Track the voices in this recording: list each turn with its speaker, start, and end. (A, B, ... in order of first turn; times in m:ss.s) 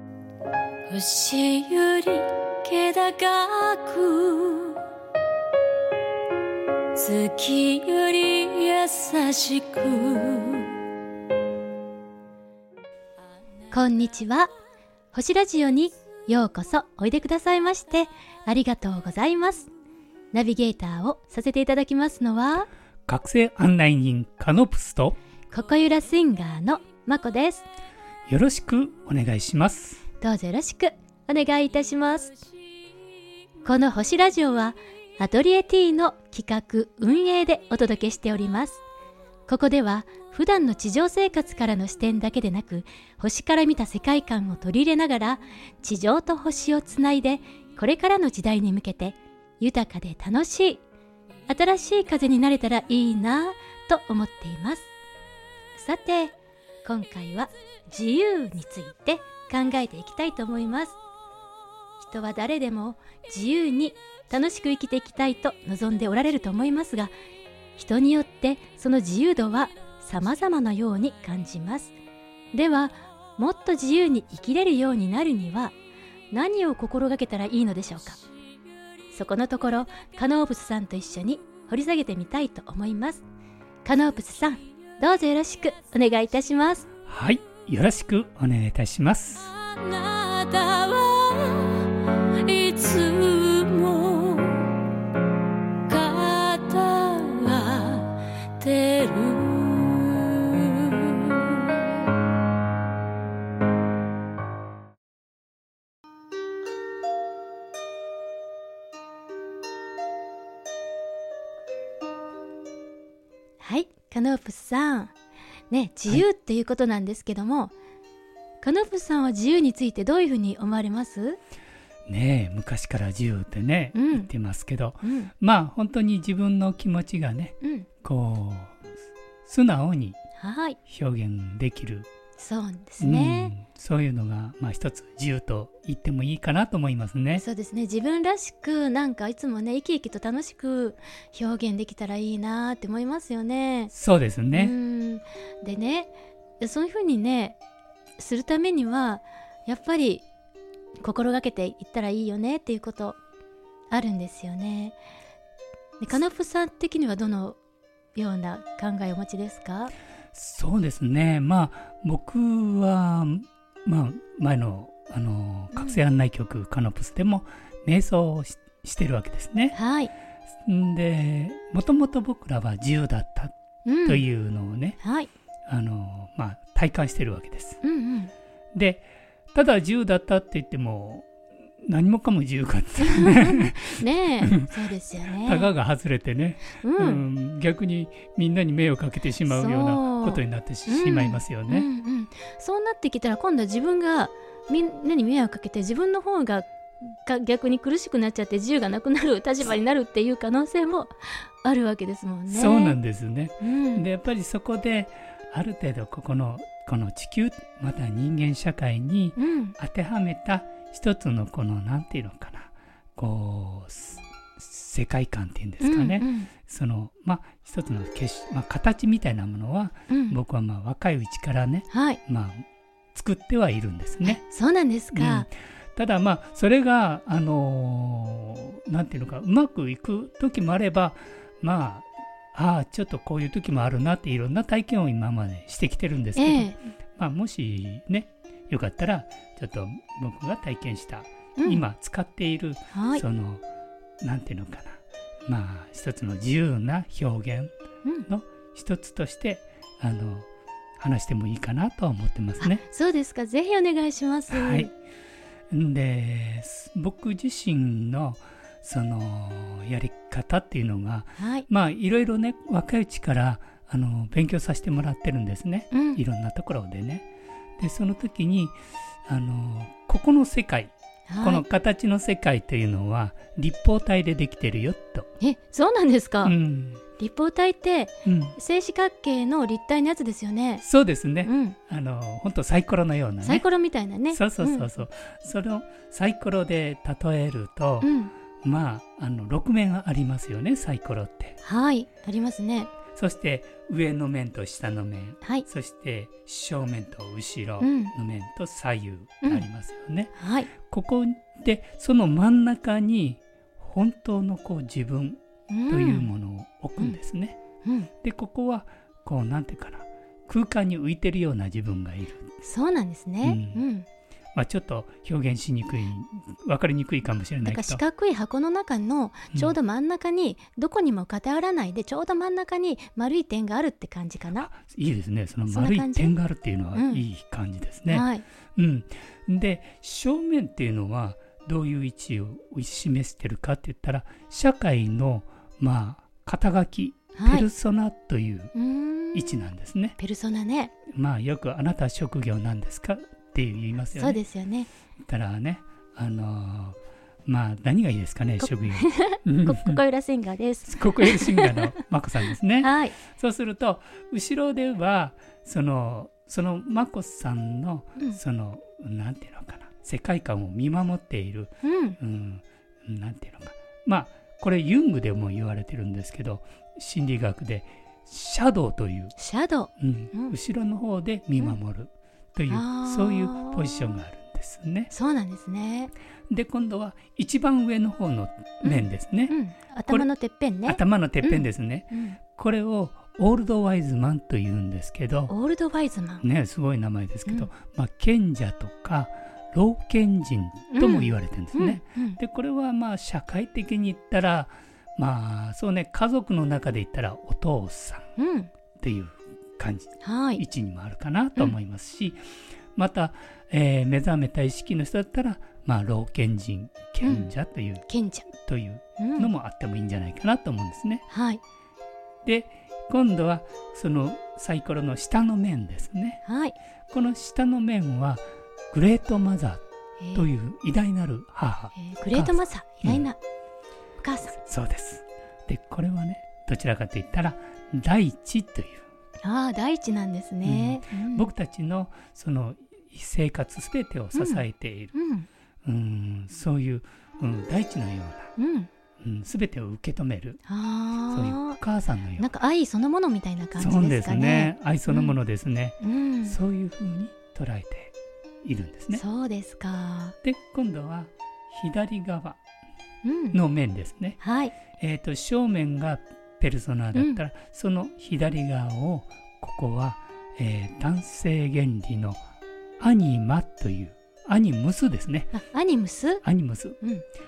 0:00.9-0:04.8 A
0:07.0-0:10.7 A
0:13.7-0:14.5 A
0:15.1-0:19.7 A
0:20.3-0:22.7 A
0:23.1-0:25.2 B
0:25.5-0:27.7 A
0:28.3-0:30.0 B
0:30.2-0:32.4 A
0:33.6-0:38.8 A
0:39.5-0:50.8 A
0:51.5-0:54.9 A
0:55.8-1:01.0 A
1:02.0-1:07.1 A
1:07.8-1:12.0 A
1:12.5-1:15.7 A
1:16.3-1:18.2 A
1:19.1-1:23.2 A
1:23.8-1:26.9 A
1:27.1-1:29.5 B
1:29.6-1:34.7 A
1:35.9-1:41.6 A
1:53.6-1:55.1 A
1:55.7-1:57.7 A
1:58.6-2:01.4 A
2:02.1-2:08.8 B
2:03.9-2:04.3 A
2:05.0-2:05.3 A
2:09.4-2:10.2 B
2:10.4-2:10.8 A
2:10.9-2:12.1 B
2:12.4-2:13.5 A
2:13.0-2:17.4 B
2:17.4-2:23.9 A
2:23.9-2:24.7 B
2:24.5-2:27.6 A
2:28.2-2:30.2 A
2:31.0-2:33.2 A
2:33.9-2:35.0 A
2:36.0-2:37.6 A
2:38.2-2:39.9 A
2:40.3-2:49.8 B
2:45.7-2:46.0 A
2:49.8-2:50.1 A
2:50.6-2:53.5 B
2:53.8-2:54.2 A
2:54.0-2:55.0 B
2:55.0-2:55.3 A
2:55.7-2:57.8 B
2:57.8-2:58.3 A
2:58.7-3:01.3 B
3:01.8-3:04.7 B
3:03.0-3:05.7 A
3:05.4-3:11.9 B
3:06.8-3:07.2 A
3:09.5-3:23.0 A
3:22.5-3:44.4 B
3:23.6-3:24.1 A
3:29.4-3:29.8 A
3:35.8-3:36.5 A
3:40.1-3:40.4 A
3:41.9-3:42.2 A
3:44.2-3:45.5 A
3:45.1-4:03.6 B
3:56.4-3:56.9 A
4:01.6-4:01.8 A
4:02.9-4:03.2 A
4:04.2-4:07.7 B
4:08.3-4:10.5 B
4:11.0-4:12.8 B
4:12.6-4:14.9 A
4:14.5-4:14.9 B
4:15.7-4:27.2 B
4:21.4-4:21.7 A
4:25.9-4:26.2 A
4:27.8-4:35.3 B
4:31.3-4:31.6 A
4:35.4-4:36.6 A
4:36.4-4:37.0 B
4:37.2-4:40.8 A
4:38.2-4:38.6 B
4:40.8-4:43.6 B
4:41.4-4:41.8 A
4:43.4-4:44.9 A
4:44.3-4:48.1 B
4:48.0-4:48.3 A
4:48.6-4:51.6 B
4:51.6-4:52.9 A
4:53.2-5:07.6 B
4:57.8-4:58.1 A
5:00.4-5:00.7 A
5:05.7-5:06.3 A
5:07.8-5:08.1 A
5:08.2-5:12.6 B
5:12.6-5:14.1 A
5:13.4-5:13.8 B
5:14.5-5:18.0 B
5:17.6-5:24.7 A
5:24.6-5:38.7 B
5:25.7-5:26.3 A
5:26.9-5:27.2 A
5:28.1-5:28.4 A
5:37.4-5:37.7 A
5:38.8-5:39.6 A
5:39.3-5:40.2 B
5:40.2-5:40.9 A
5:41.1-5:44.4 B
5:44.2-5:44.9 A
5:45.2-5:50.0 B
5:48.6-5:51.9 A
5:50.9-6:09.3 B
5:52.8-5:53.2 A
6:01.8-6:02.2 A
6:09.4-6:10.6 A
6:10.0-6:15.1 B
6:12.7-6:14.2 A
6:15.1-6:16.1 A
6:16.5-6:19.6 B
6:18.8-6:22.4 A
6:20.8-6:25.5 B
6:25.5-6:26.4 A
6:26.4-6:38.4 B
6:30.9-6:32.4 A
6:38.4-6:38.7 A
6:39.0-6:51.2 B
6:40.2-6:40.6 A
6:47.2-6:47.5 A
6:48.1-6:48.5 A
6:49.2-6:49.5 A
6:51.3-6:51.6 A
6:52.4-6:56.4 B
6:56.4-6:56.8 A
6:57.1-6:59.8 B
7:00.2-7:00.5 A
7:00.3-7:03.2 B
7:02.0-7:03.4 A
7:04.2-7:04.6 A
7:04.6-7:09.1 B
7:09.4-7:11.5 A
7:10.6-7:15.2 B
7:14.4-7:14.6 A
7:15.1-7:15.5 A
7:15.8-7:18.5 B
7:18.6-7:18.9 A
7:19.2-7:20.6 B
7:20.7-7:21.8 A
7:21.3-7:22.5 B
7:22.4-7:25.4 A
7:23.8-7:29.2 B
7:26.0-7:26.6 A
7:29.1-7:30.4 A
7:30.4-7:32.6 B
7:33.2-7:33.6 A
7:33.5-7:34.4 B
7:34.4-7:34.8 A
7:34.9-7:42.4 B
7:37.2-7:37.4 A
7:43.0-7:45.6 B
7:45.5-7:46.4 A
7:46.4-7:47.0 B
7:47.0-7:47.2 A